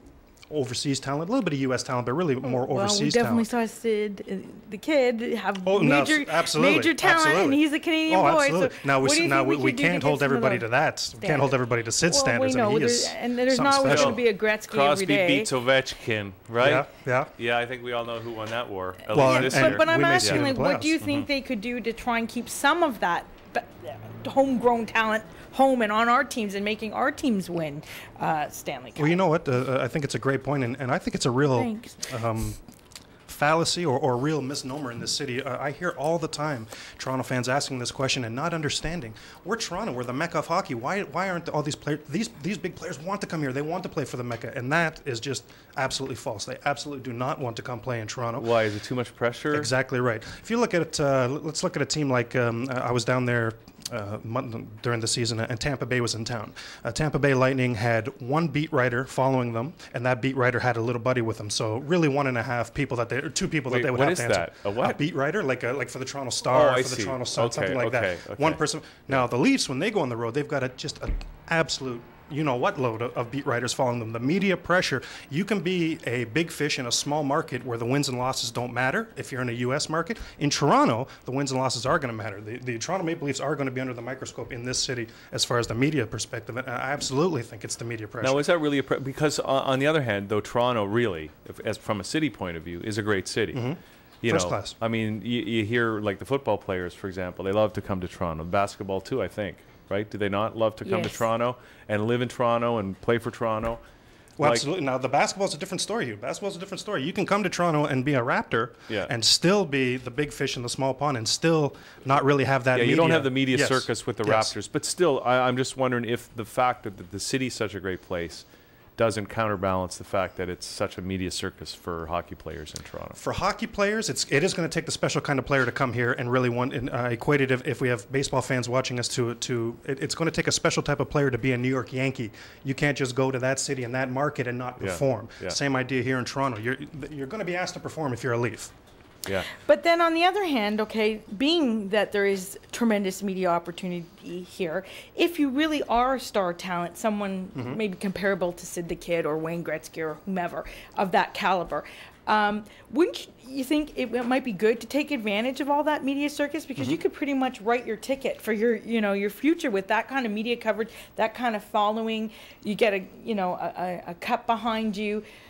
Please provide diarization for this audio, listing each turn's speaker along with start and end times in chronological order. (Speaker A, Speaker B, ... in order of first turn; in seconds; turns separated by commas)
Speaker A: 0.5-3.5, Speaker B: 2.4-15.5, Speaker A: 5.6-14.2, Speaker C: 13.8-20.5, Speaker A: 16.6-17.3, Speaker A: 19.1-20.9, Speaker B: 19.1-29.2, Speaker C: 21.0-21.3, Speaker A: 29.0-32.6, Speaker B: 31.6-32.0, Speaker A: 33.3-48.5, Speaker C: 48.4-49.7, Speaker A: 49.5-88.5, Speaker C: 63.7-65.0, Speaker C: 66.5-69.2, Speaker C: 88.2-93.7, Speaker A: 93.5-94.8, Speaker C: 94.2-103.8, Speaker B: 100.8-101.2, Speaker A: 104.4-114.5, Speaker C: 104.4-104.7, Speaker C: 112.7-118.5, Speaker C: 119.0-123.2, Speaker A: 123.2-138.7, Speaker C: 134.8-135.6, Speaker C: 139.3-139.5, Speaker B: 139.6-165.2, Speaker A: 147.6-147.8